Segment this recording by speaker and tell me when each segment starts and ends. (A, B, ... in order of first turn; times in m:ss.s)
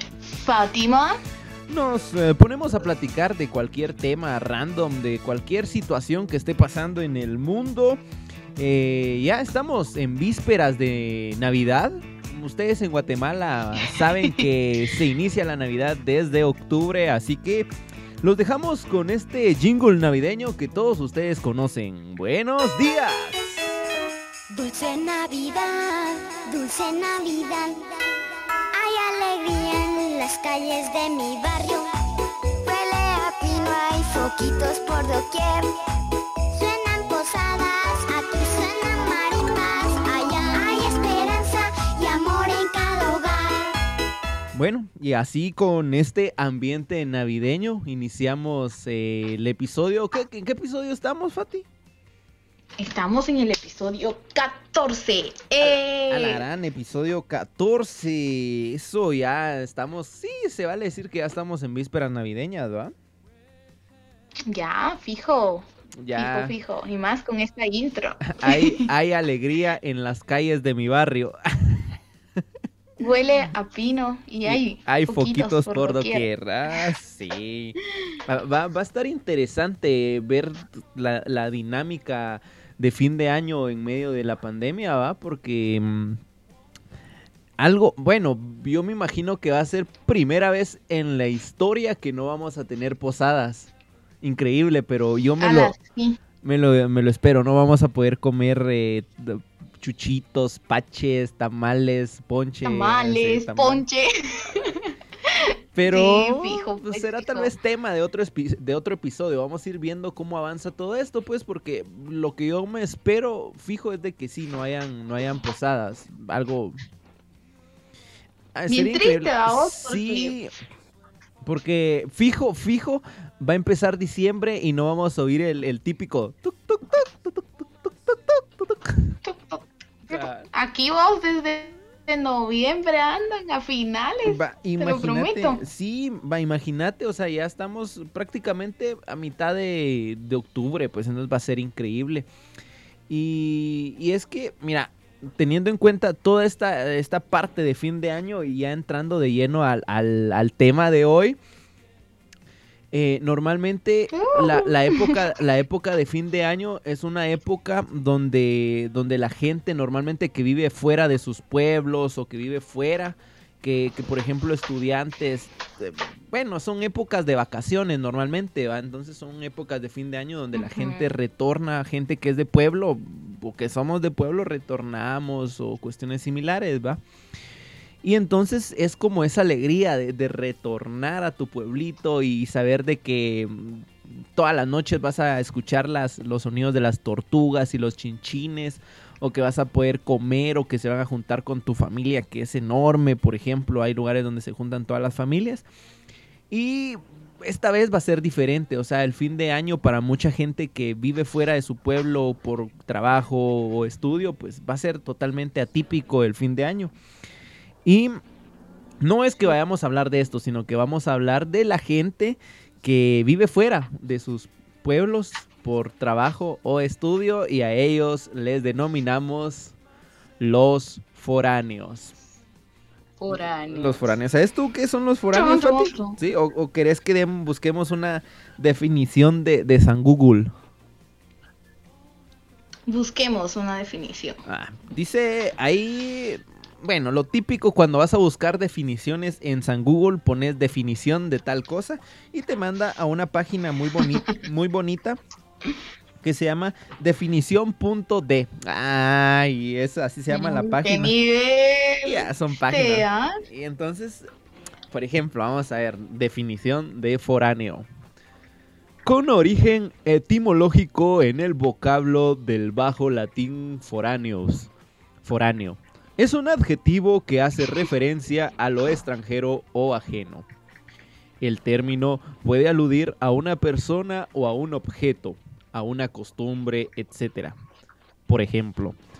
0:00.3-0:01.2 A
0:01.7-0:08.0 B
0:08.6-0:17.7 B
0:13.8-0:14.5 A
0:18.2-0:23.7 B
0:24.5-0:27.9 C
0:28.7-0:31.9 C
0:32.6-0:35.7 C
0:36.5-0:43.8 C
0:44.5-0:51.7 B
0:52.8-0:56.4 A
0:55.6-1:02.9 B
1:04.5-1:08.9 A
1:06.0-1:06.5 B
1:08.2-1:12.0 B
1:13.0-1:16.3 A
1:14.4-1:26.2 B
1:27.6-1:33.7 B
1:34.2-1:35.7 B
1:35.4-1:36.2 A
1:36.4-1:43.8 B
1:42.6-1:47.5 A
1:45.7-1:56.8 B
1:58.5-2:00.5 B
1:58.7-2:00.4 A
2:01.4-2:09.2 B
2:09.2-2:15.6 A
2:10.1-2:10.5 B
2:14.2-2:22.3 B
2:23.1-2:31.4 B
2:32.9-2:57.0 B
2:34.1-2:35.2 A
2:50.5-2:51.1 A
2:58.0-3:15.6 B
3:16.5-3:26.9 B
3:27.8-3:28.2 B
3:29.0-3:39.7 B
3:40.4-3:42.1 B
3:43.2-3:44.2 A
3:43.3-3:50.5 B
3:45.3-3:46.2 A
3:52.9-3:54.4 A
3:54.4-4:05.2 B
4:06.2-4:11.1 B
4:10.3-4:13.4 A
4:12.0-4:14.3 B
4:14.9-4:17.8 B
4:19.0-4:24.7 B
4:25.2-4:30.5 B
4:31.4-4:37.6 B
4:38.3-4:39.0 B